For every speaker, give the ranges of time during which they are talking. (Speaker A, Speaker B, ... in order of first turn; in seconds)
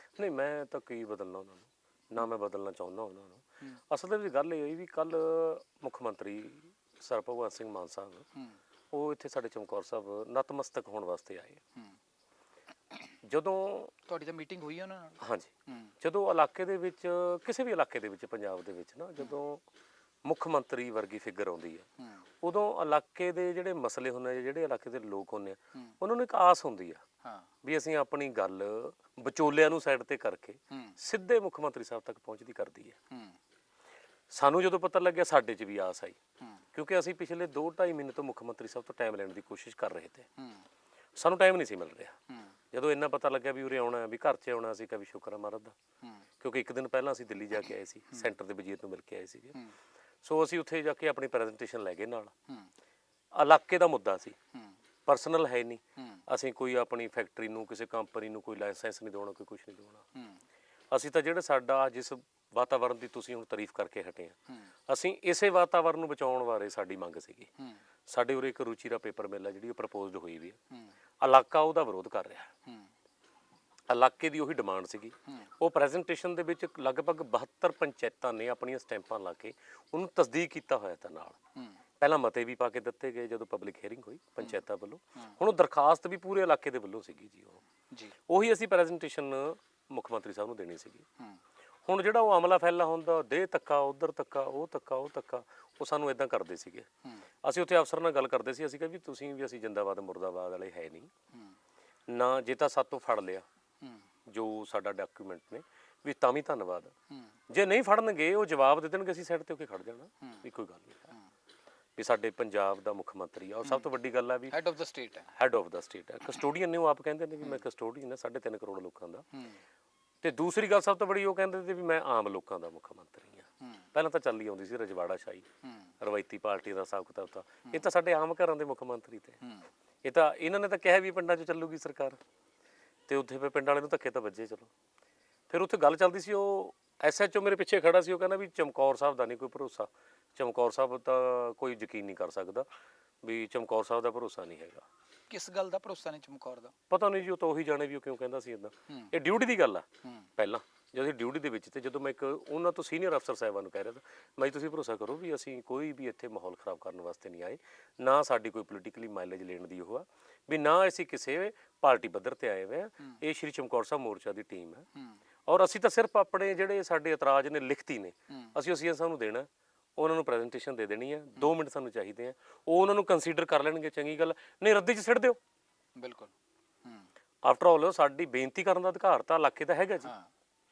Speaker A: 0.2-8.2, 8.9-11.6, 13.2-13.9, 15.2-19.6, 20.2-21.9, 22.4-27.0, 27.6-33.0, 34.3-36.2, 36.7-40.3, 41.2-42.2, 42.7-45.7, 46.4-49.6, 50.2-52.3, 53.3-54.4, 55.0-60.0, 60.9-67.5, 68.1-70.6, 71.2-72.5, 73.9-81.4, 82.0-87.6, 88.3-91.0, 91.9-96.9, 97.4-101.1, 102.1-103.4, 104.3-106.9, 107.5-111.1, 112.0-114.5, 115.3-119.2, 120.2-125.5, 126.0-129.4, 130.0-132.2, 133.1-134.7, 135.5-142.7, 143.2-144.8, 146.9-149.8, 150.4-164.8, 165.5-175.4, 177.4-180.1
Speaker B: 14.1-15.9, 30.7-30.9, 33.1-33.4, 40.4-40.6, 114.5-115.3, 145.3-146.7, 175.9-176.3